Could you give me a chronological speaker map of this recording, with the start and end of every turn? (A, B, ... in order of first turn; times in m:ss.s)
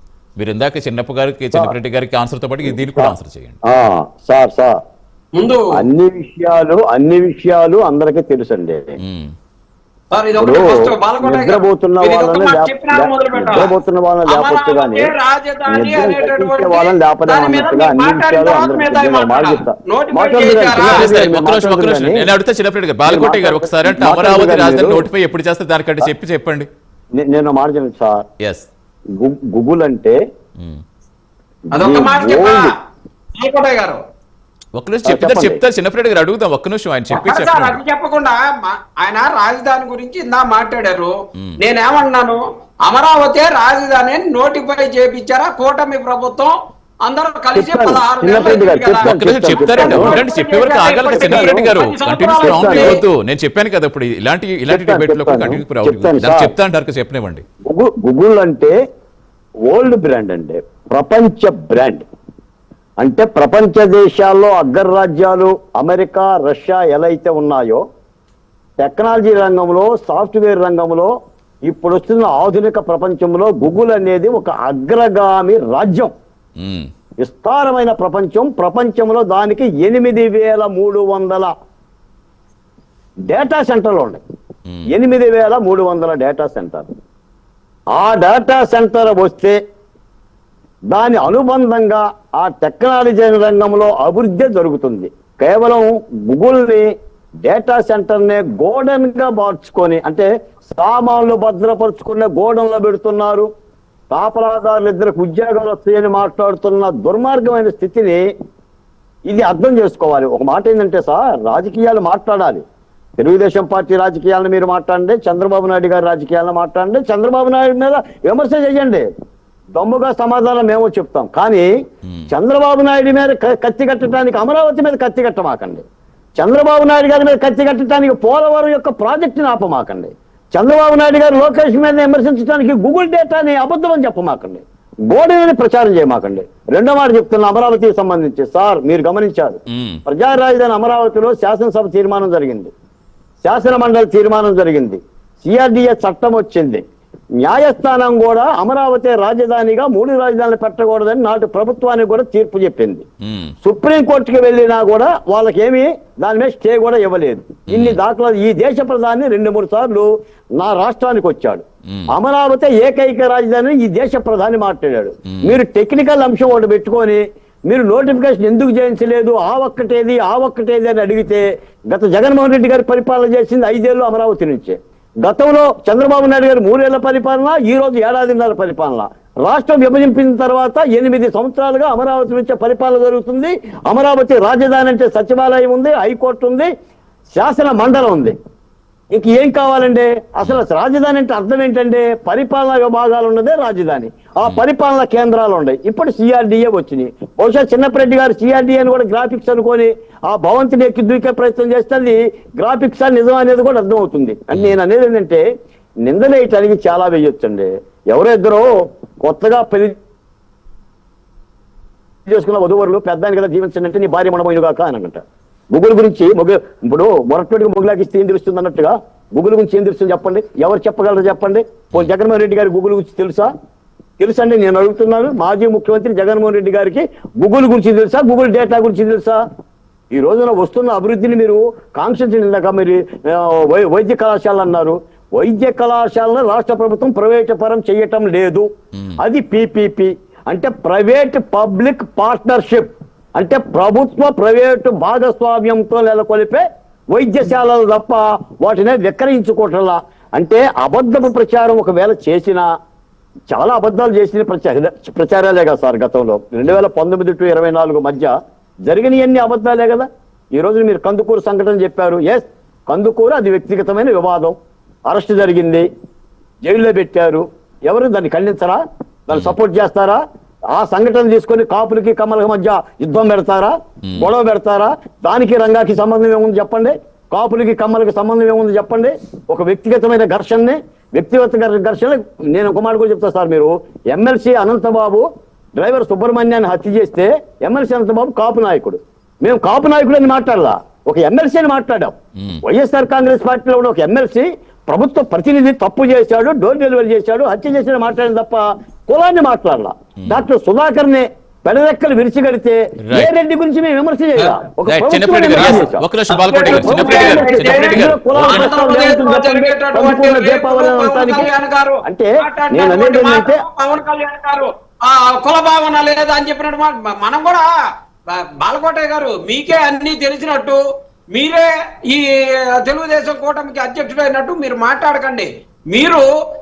0:00.4-0:03.6 A
0:02.6-0:03.1 B
0:03.6-0:04.8 B
0:05.4-0:05.7 C
0:05.7-0:09.0 B
0:09.0-0:09.3 A
0:10.1-0:13.7 C
0:10.4-0:15.1 B
0:14.2-0:21.1 C
0:15.7-0:22.3 B
0:20.8-0:26.7 A
0:23.0-0:25.1 B
0:27.2-0:28.2 B
0:28.4-0:28.7 A
0:29.2-0:30.2 B
0:31.7-0:32.6 C
0:31.8-0:32.6 B
0:33.4-0:34.0 C
0:34.7-0:37.8 A
0:35.0-0:35.6 B
0:37.1-0:46.5 C
0:47.0-0:53.0 C
0:47.5-0:50.2 B
0:49.0-0:57.4 A
0:51.2-0:51.7 B
0:52.4-0:53.0 B
0:54.7-0:56.5 B
0:57.7-0:58.8 B
0:59.7-1:02.0 B
1:03.0-1:07.8 B
1:08.8-1:11.1 B
1:11.7-1:16.1 B
1:16.6-1:16.9 A
1:17.2-1:21.5 B
1:23.3-1:24.2 B
1:24.9-1:26.9 B
1:27.9-1:29.6 B
1:30.9-1:36.8 B
1:37.4-1:43.5 B
1:44.1-1:48.2 B
1:49.2-1:52.6 B
1:53.2-1:59.0 B
1:59.8-2:01.7 B
2:02.3-2:05.8 B
2:06.4-2:22.7 B
2:19.7-2:20.0 A
2:23.4-2:26.8 B
2:27.4-2:33.0 B
2:33.2-2:33.5 A
2:33.6-3:06.7 B
2:37.7-2:38.0 A
2:45.3-2:45.6 A
3:07.3-3:08.3 B
3:09.1-3:25.4 B
3:26.0-3:28.6 B
3:29.2-3:29.9 B
3:32.3-3:35.2 B
3:35.7-3:43.5 B
3:44.2-3:49.4 B
3:50.1-3:58.7 B
3:59.2-4:12.6 B
4:13.5-4:18.3 B
4:18.9-4:24.6 B
4:25.1-4:25.8 B
4:26.6-4:30.2 B
4:30.7-4:45.2 B
4:45.8-5:06.0 B
5:03.0-5:03.3 A
5:04.9-5:08.6 A
5:05.6-5:17.7 C
5:06.6-5:11.5 B
5:12.0-5:13.6 B
5:18.4-5:20.8 C
5:21.3-5:22.2 C
5:22.8-5:26.3 C